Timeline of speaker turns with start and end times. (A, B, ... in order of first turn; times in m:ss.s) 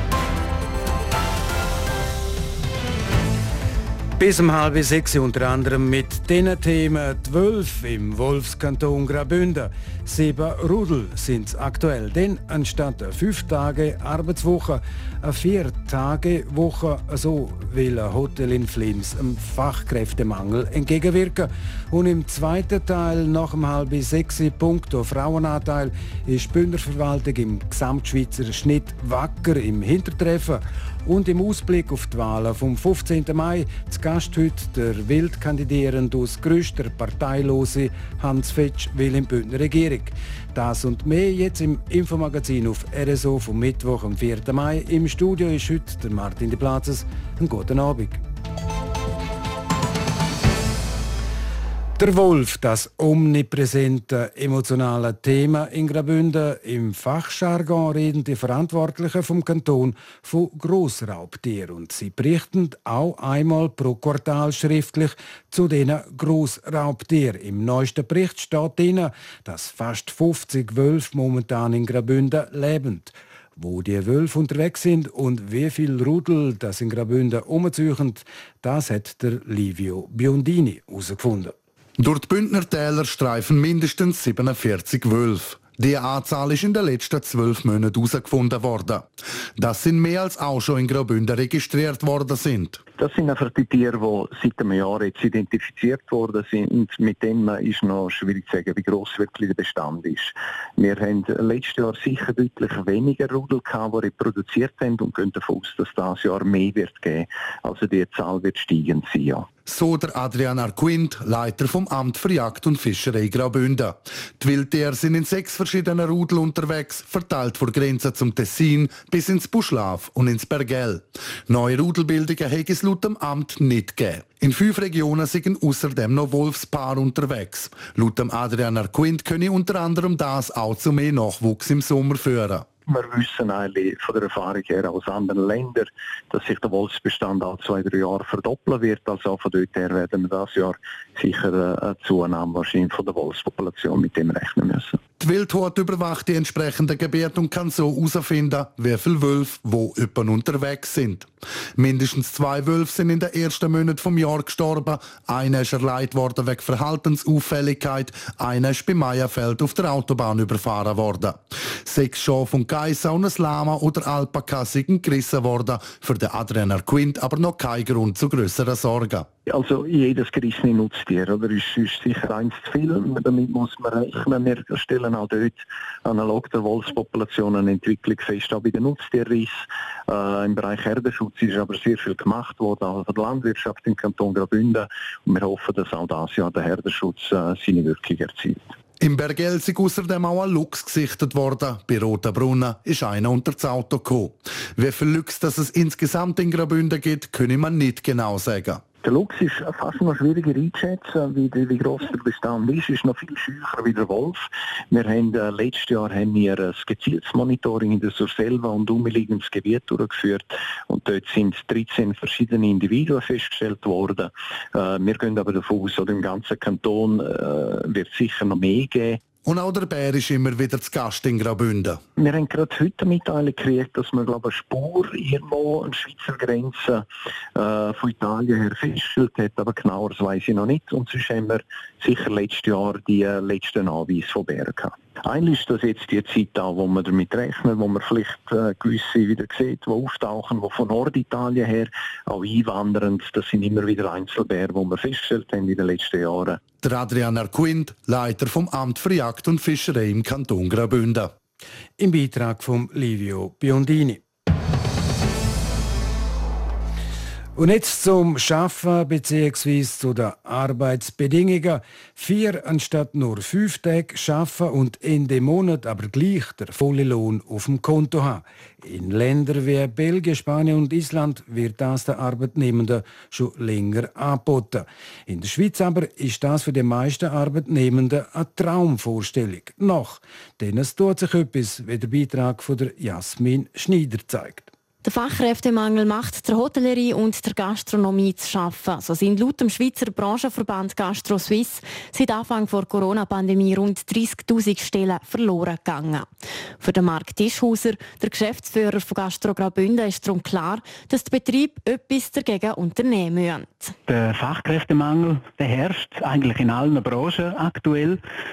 0:04.2-0:48.2 A
0:52.0-1:21.6 A
1:22.0-1:32.8 B
1:33.0-1:49.5 C
1:49.7-2:12.7 B
2:12.9-2:25.0 C
2:25.2-2:49.3 B
2:49.5-3:08.7 C
3:09.0-3:18.8 B
3:19.0-3:39.2 C
3:39.4-3:42.0 B
3:42.2-4:06.6 C
4:06.8-4:11.3 B
4:12.0-4:14.2 A
4:17.6-4:44.7 A
4:45.0-4:56.3 D
4:56.8-5:04.0 D
5:04.1-5:08.2 E